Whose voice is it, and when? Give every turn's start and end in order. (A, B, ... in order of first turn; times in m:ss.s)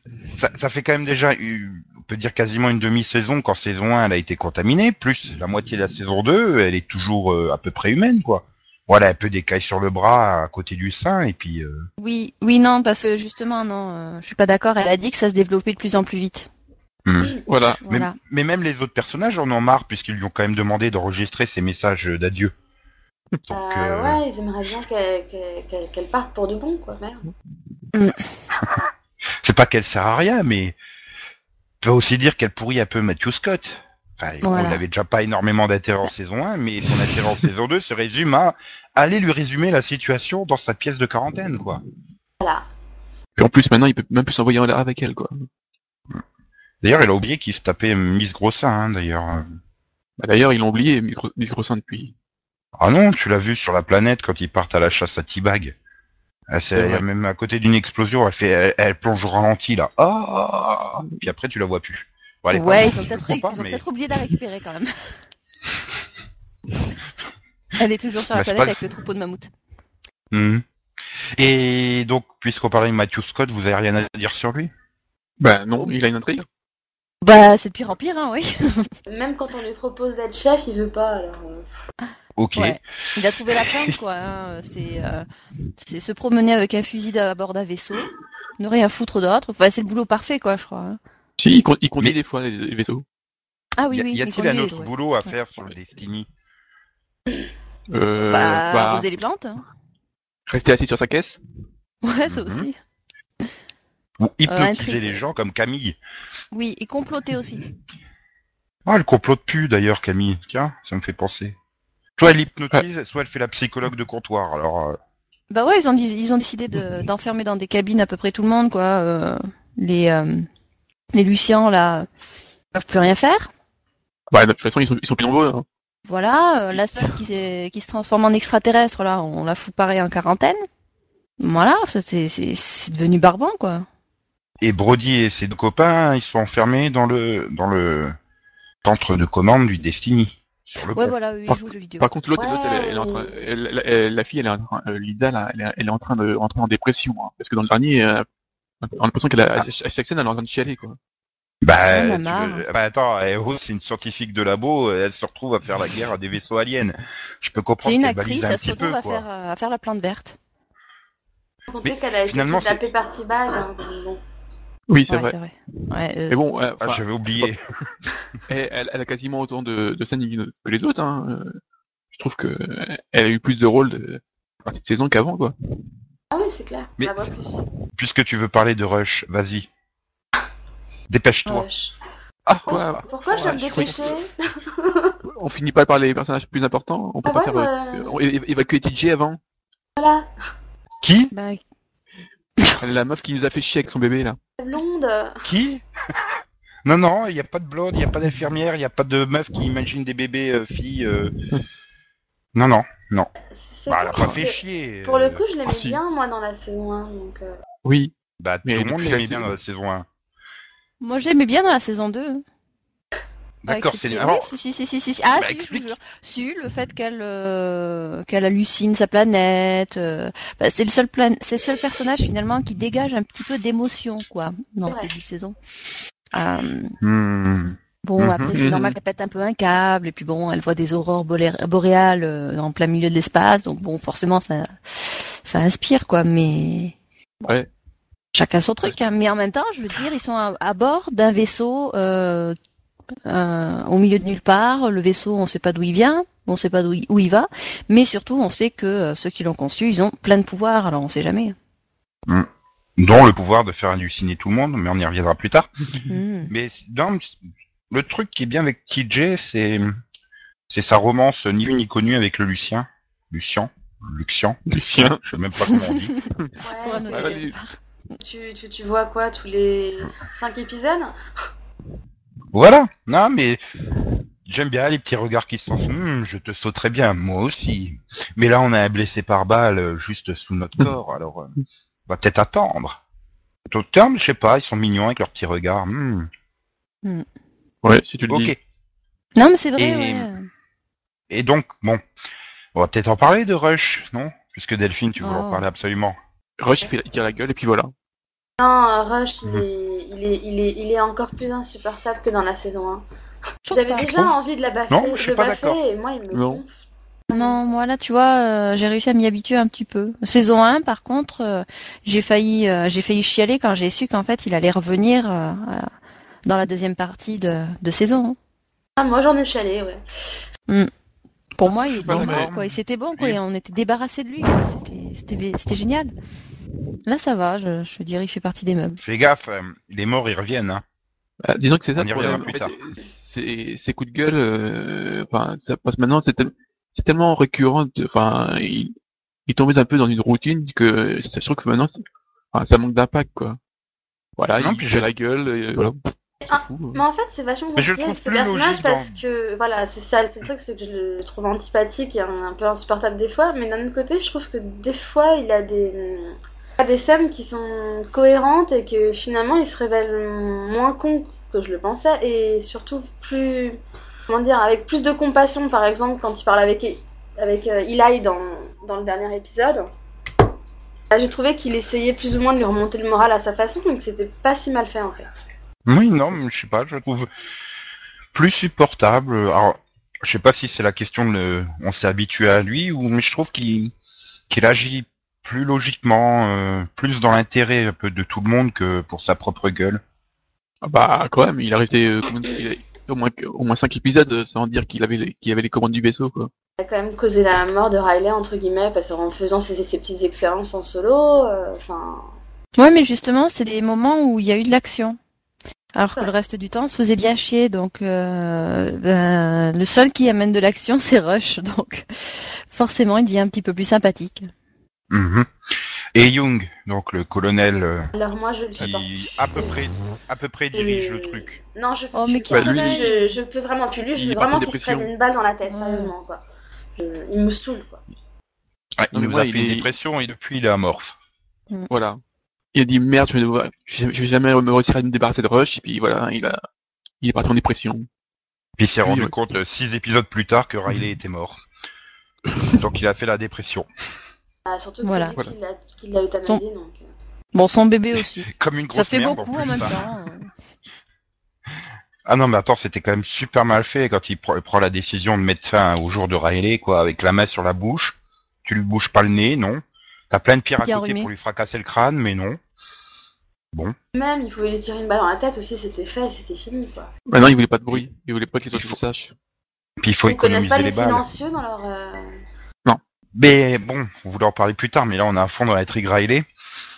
0:00.4-0:11.8 A
0:12.0-0:16.5 B
0:17.0-0:22.5 A
0:17.5-0:17.8 C
0:17.8-0:18.1 B
0:23.5-0:24.2 A
0:23.5-0:27.3 D
0:27.9-0:28.2 B
0:28.6-0:28.9 A
0:29.4-0:30.8 A
0:31.8-0:41.8 A
0:34.4-0:34.8 B
0:43.4-0:45.4 C
0:46.8-0:49.4 A
0:50.2-0:52.1 C
0:52.8-0:55.7 A
0:56.5-1:03.8 A
0:56.7-0:57.0 C
1:01.0-1:01.3 C
1:02.5-1:04.9 B
1:07.8-1:09.5 B
1:08.3-1:08.8 A
1:10.3-1:10.6 A
1:11.4-1:14.7 A
1:15.4-1:16.4 C
1:17.2-1:18.9 B
1:19.1-1:21.7 D
1:22.4-1:22.8 A
1:22.5-1:25.2 B
1:23.6-1:23.9 A
1:25.8-1:31.0 B
1:31.4-1:33.0 C
1:33.8-1:34.9 B
1:33.9-1:36.3 A
1:37.9-1:39.1 C
1:38.3-1:39.6 B
1:40.5-1:41.4 C
1:42.0-1:42.8 B
1:42.3-1:42.7 A
1:44.2-1:46.0 A
1:44.5-1:45.2 B
1:46.5-1:47.6 B
1:48.8-1:51.6 A
1:52.2-1:55.0 A
1:55.5-2:00.5 B
2:01.1-2:02.1 B
2:02.7-2:03.5 B
2:04.3-2:05.6 C
2:06.0-2:10.6 B
2:11.4-2:13.8 B
2:14.6-2:18.1 A
2:18.8-2:21.1 A
2:20.9-2:22.1 B
2:21.5-2:28.2 C
2:22.4-2:23.3 D
2:28.8-2:31.0 C
2:31.6-2:39.2 A
2:31.9-2:32.6 B
2:37.8-2:40.4 B
2:41.7-2:44.2 D
2:41.8-2:42.9 A
2:44.9-2:45.3 C
2:45.1-2:46.4 B
2:46.3-2:47.5 C
2:46.8-2:47.6 A
2:48.5-2:51.6 C
2:52.1-2:55.5 C
2:56.3-2:57.6 D
2:57.0-2:57.3 A
2:58.0-2:59.7 A
3:01.1-3:01.7 A
3:01.4-3:01.9 D
3:02.4-3:03.0 A
3:02.6-3:05.2 D
3:02.7-3:04.2 C
3:03.7-3:03.9 A
3:05.2-3:09.4 C
3:07.2-3:08.1 D
3:10.0-3:10.3 D
3:11.0-3:11.3 A
3:11.3-3:11.6 B
3:12.8-3:14.4 C
3:14.6-3:15.5 D
3:15.4-3:15.8 A
3:16.8-3:21.3 A
3:22.5-3:23.3 A
3:23.5-3:27.5 D
3:23.9-3:25.4 A
3:25.6-3:26.0 C
3:27.8-3:28.1 C
3:28.4-3:30.0 A
3:28.6-3:29.5 C
3:31.0-3:32.4 B
3:33.6-3:34.5 A
3:33.7-3:45.6 B
3:35.3-3:35.9 A
3:44.9-3:45.1 D
3:46.3-3:47.0 B
3:47.0-3:48.6 A
3:48.0-3:56.9 B
3:48.5-3:48.8 C
3:58.3-4:02.6 B
4:03.2-4:11.6 B
4:12.3-4:15.7 A
4:16.1-4:16.5 B
4:16.5-4:17.4 A
4:17.9-4:19.9 A
4:20.7-4:24.6 A
4:24.7-4:25.2 C
4:25.2-4:26.1 A
4:25.6-4:26.3 B
4:26.6-4:27.4 D
4:26.8-4:27.8 B
4:27.1-4:27.5 C
4:28.2-4:31.1 D
4:32.5-4:33.6 A
4:34.4-4:41.5 A
4:42.1-4:43.0 A
4:43.7-4:46.3 A
4:47.8-4:48.5 C
4:48.3-4:48.6 A
4:49.4-4:50.5 B
4:49.8-4:50.3 A
4:51.3-4:52.0 A
4:52.7-4:56.2 A
4:55.2-4:55.6 B
4:56.6-4:57.9 C
4:58.6-5:03.0 D
5:03.6-5:04.3 B
5:03.7-5:06.7 D
5:04.9-5:05.8 A
5:06.3-5:06.6 C
5:07.3-5:07.6 D
5:07.3-5:15.9 B
5:16.4-5:18.4 B
5:19.0-5:20.0 D
5:21.6-5:26.1 B
5:21.9-5:23.4 A
5:22.0-5:22.5 C
5:27.0-5:29.0 B
5:29.0-5:30.8 A
5:31.4-5:38.9 C
5:32.0-5:32.7 A
5:39.5-5:42.0 C
5:42.5-5:43.6 C
5:44.4-5:47.0 C
5:44.6-5:45.1 A
5:46.5-6:09.9 D
5:47.8-5:49.2 A
6:11.1-6:15.3 D
6:15.8-6:17.3 A
6:18.3-6:23.9 A
6:24.5-6:30.0 A
6:30.8-6:36.5 C
6:36.8-6:42.3 D
6:42.8-6:45.2 B
6:45.9-6:54.5 B
6:55.1-6:55.5 A
6:56.1-6:58.1 A
6:58.1-6:59.8 D
6:58.8-7:01.6 A
7:00.7-7:06.4 D
7:02.1-7:03.4 B
7:02.5-7:03.1 C
7:04.2-7:05.1 C
7:05.7-7:06.1 B
7:07.0-7:08.0 D
7:09.0-7:11.1 A
7:09.1-7:09.9 C
7:11.9-7:12.2 C
7:12.7-7:16.6 C
7:17.2-7:18.1 C
7:18.8-7:21.6 A
7:19.0-7:19.3 C
7:22.6-7:23.9 A
7:24.6-7:27.0 D
7:25.0-7:25.4 B
7:27.5-7:30.5 B
7:28.5-7:30.0 A
7:32.2-7:42.6 A
7:40.8-7:41.3 B
7:44.1-7:47.1 D
7:47.3-7:49.3 C
7:48.7-7:49.0 A
7:50.0-7:51.2 A
7:50.3-7:52.4 D
7:53.4-7:56.4 A